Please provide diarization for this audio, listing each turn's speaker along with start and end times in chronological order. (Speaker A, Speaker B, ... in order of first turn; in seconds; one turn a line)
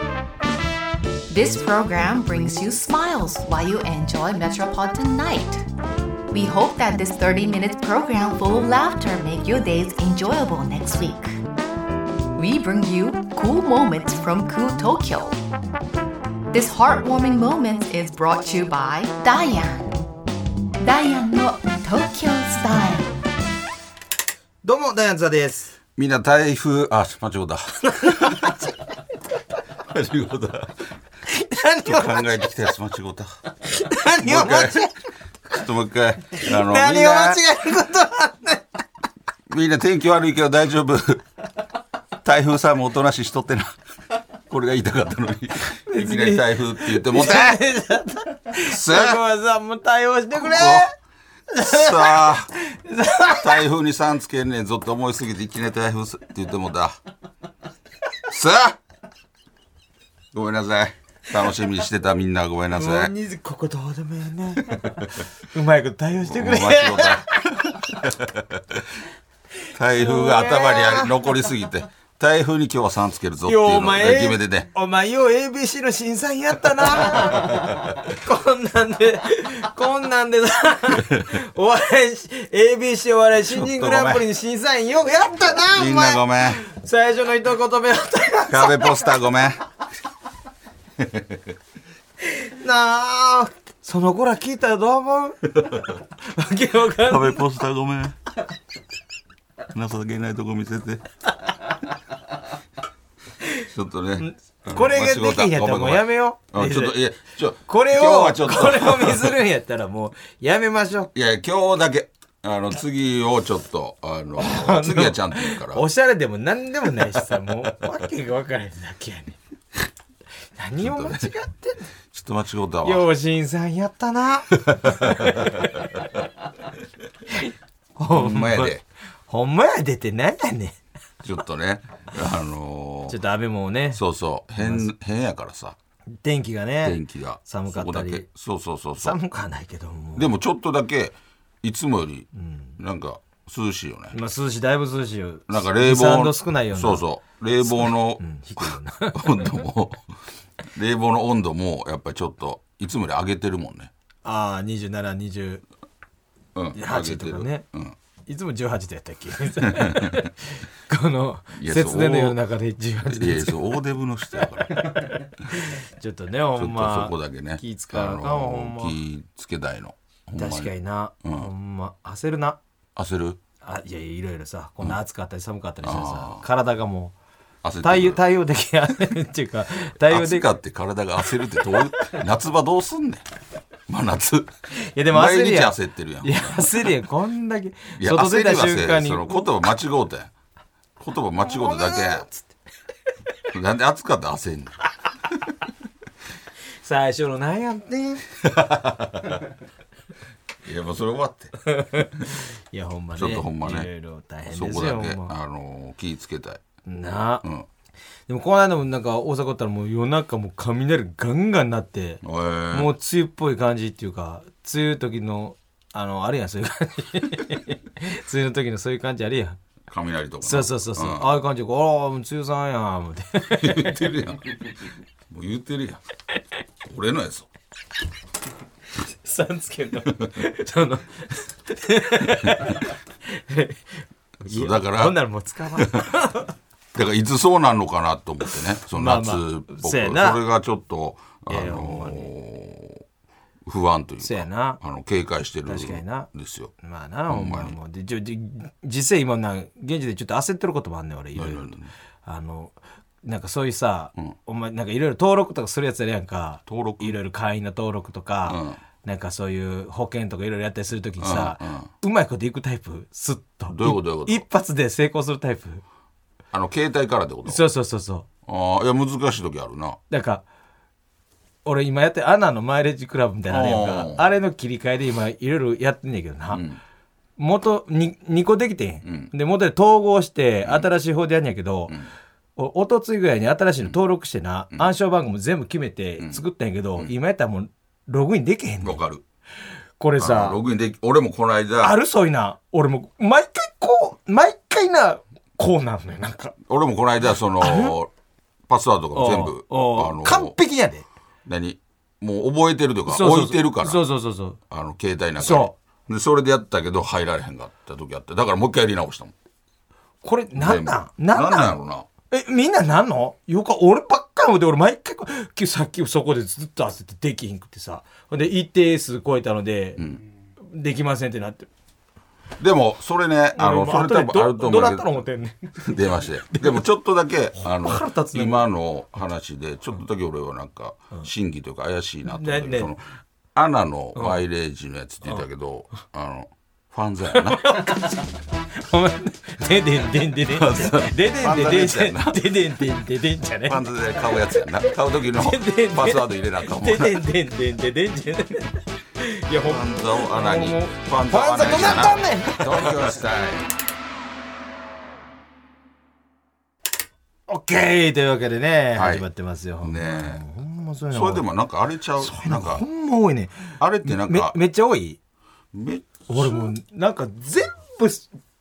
Speaker A: 1.3-5.7
Speaker A: 6.3-11.4
Speaker A: 12.4-15.4
Speaker A: 16.5-19.8
Speaker A: 20.8-23.1
Speaker B: 24.6-25.7
Speaker C: 25.9-28.6
Speaker B: 28.1-28.6
Speaker C: 29.8-30.8
Speaker B: 31.2-32.5
Speaker C: 31.8-33.3
Speaker B: 33.7-34.9
Speaker C: 34.2-34.9
Speaker C: 35.5-37.4
Speaker B: 36.4-38.6
Speaker C: 39.5-41.2
Speaker C: 42.2-43.7
Speaker C: 44.5-47.6
Speaker B: 45.9-50.9
Speaker C: 48.5-49.2
Speaker C: 50.3-50.9
Speaker B: 51.5-53.6
Speaker C: 51.6-52.5
Speaker C: 53.3-57.0
Speaker C: 58.2-58.8
Speaker C: 60.3-63.1
Speaker B: 62.7-67.3
Speaker C: 64.7-65.0
Speaker C: 66.2-69.0
Speaker C: 69.7-74.7
Speaker B: 69.9-71.1
Speaker B: 73.4-89.2
Speaker C: 81.0-81.3
Speaker C: 83.4-84.2
Speaker C: 85.7-86.6
Speaker C: 88.5-89.6
Speaker C: 91.0-91.5
Speaker B: 92.3-97.4
Speaker C: 97.0-98.2
Speaker C: 99.7-101.0
Speaker C: 103.6-109.4
Speaker B: 104.2-107.0
Speaker B: 107.7-111.1
Speaker C: 111.1-115.8
Speaker B: 114.4-119.4
Speaker B: 120.5-121.8
Speaker C: 120.8-121.3
Speaker C: 122.1-123.0
Speaker B: 122.8-125.5
Speaker C: 124.8-125.8
Speaker B: 127.3-128.7
Speaker C: 128.1-128.8
Speaker B: 129.3-130.8
Speaker C: 131.2-133.2
Speaker B: 133.1-134.0
Speaker C: 133.9-135.8
Speaker B: 134.6-134.8
Speaker B: 136.2-138.3
Speaker C: 136.8-139.2
Speaker B: 139.0-140.3
Speaker C: 140.2-144.2
Speaker B: 142.3-142.8
Speaker B: 144.1-147.0
Speaker C: 145.5-150.1
Speaker B: 147.6-149.6
Speaker C: 150.7-153.9
Speaker B: 154.2-155.6
Speaker C: 156.5-157.9
Speaker B: 156.7-157.6
Speaker B: 158.3-163.7
Speaker C: 159.6-160.3
Speaker C: 161.6-162.4
Speaker C: 163.0-165.3
Speaker B: 164.8-169.0
Speaker C: 166.6-170.7
Speaker B: 170.3-172.6
Speaker C: 171.2-171.5
Speaker C: 172.9-173.4
Speaker B: 173.6-177.1
Speaker C: 175.8-176.4
Speaker C: 177.6-178.2
Speaker B: 177.8-180.5
Speaker C: 180.1-183.2
Speaker C: 183.9-184.5
Speaker B: 184.7-189.5
Speaker C: 185.1-187.0
Speaker C: 188.0-190.3
Speaker C: 191.0-192.2
Speaker B: 191.4-192.5
Speaker C: 193.5-194.8
Speaker B: 196.8-198.2
Speaker C: 198.4-199.4
Speaker C: 200.6-201.5
Speaker B: 201.7-205.3
Speaker C: 203.2-203.9
Speaker C: 204.5-206.6
Speaker B: 206.8-207.4
Speaker B: 208.3-219.6
Speaker C: 212.2-212.9
Speaker C: 219.9-221.3
Speaker B: 220.4-224.3
Speaker C: 223.5-224.7
Speaker C: 225.3-226.0
Speaker C: 226.8-227.5
Speaker B: 229.0-236.5
Speaker C: 234.4-235.2
Speaker C: 235.7-236.1
Speaker C: 236.9-243.0
Speaker B: 238.8-240.4
Speaker B: 241.5-242.3
Speaker C: 243.6-246.7
Speaker B: 244.2-244.8
Speaker B: 245.7-246.3
Speaker B: 246.8-265.8
Speaker C: 247.3-247.8
Speaker C: 251.3-251.9
Speaker C: 256.7-257.1
Speaker C: 258.4-258.8
Speaker C: 261.2-261.9
Speaker C: 263.7-264.4
Speaker C: 266.5-267.6
Speaker B: 267.4-268.2
Speaker C: 268.4-270.0
Speaker B: 270.1-270.4
Speaker B: 271.6-276.6
Speaker C: 273.5-274.3
Speaker C: 276.5-276.8
Speaker B: 277.4-282.0
Speaker C: 279.0-279.3
Speaker B: 282.6-289.0
Speaker C: 288.8-289.2
Speaker B: 290.0-290.6
Speaker C: 290.2-292.0
Speaker B: 291.8-296.6
Speaker C: 296.6-298.1
Speaker B: 297.6-297.9
Speaker C: 298.7-300.5
Speaker B: 299.1-301.0
Speaker C: 301.4-304.0
Speaker B: 303.1-304.6
Speaker C: 304.7-309.3
Speaker B: 305.4-305.7
Speaker B: 310.2-311.8
Speaker C: 310.5-312.1
Speaker B: 312.3-320.1
Speaker B: 320.6-321.7
Speaker C: 322.6-325.2
Speaker B: 323.6-326.0
Speaker C: 325.8-333.0
Speaker B: 326.5-326.8
Speaker B: 327.6-328.6
Speaker B: 332.2-332.9
Speaker C: 333.5-337.9
Speaker B: 334.1-334.4
Speaker B: 337.4-338.2
Speaker B: 338.8-343.8
Speaker C: 340.5-342.5
Speaker C: 343.6-347.2
Speaker B: 345.3-353.1
Speaker C: 349.6-353.7
Speaker B: 357.5-361.4
Speaker C: 358.9-359.2
Speaker C: 359.8-360.4
Speaker C: 361.1-362.8
Speaker B: 362.2-365.2
Speaker C: 363.8-364.6
Speaker C: 365.7-366.7
Speaker B: 366.3-368.3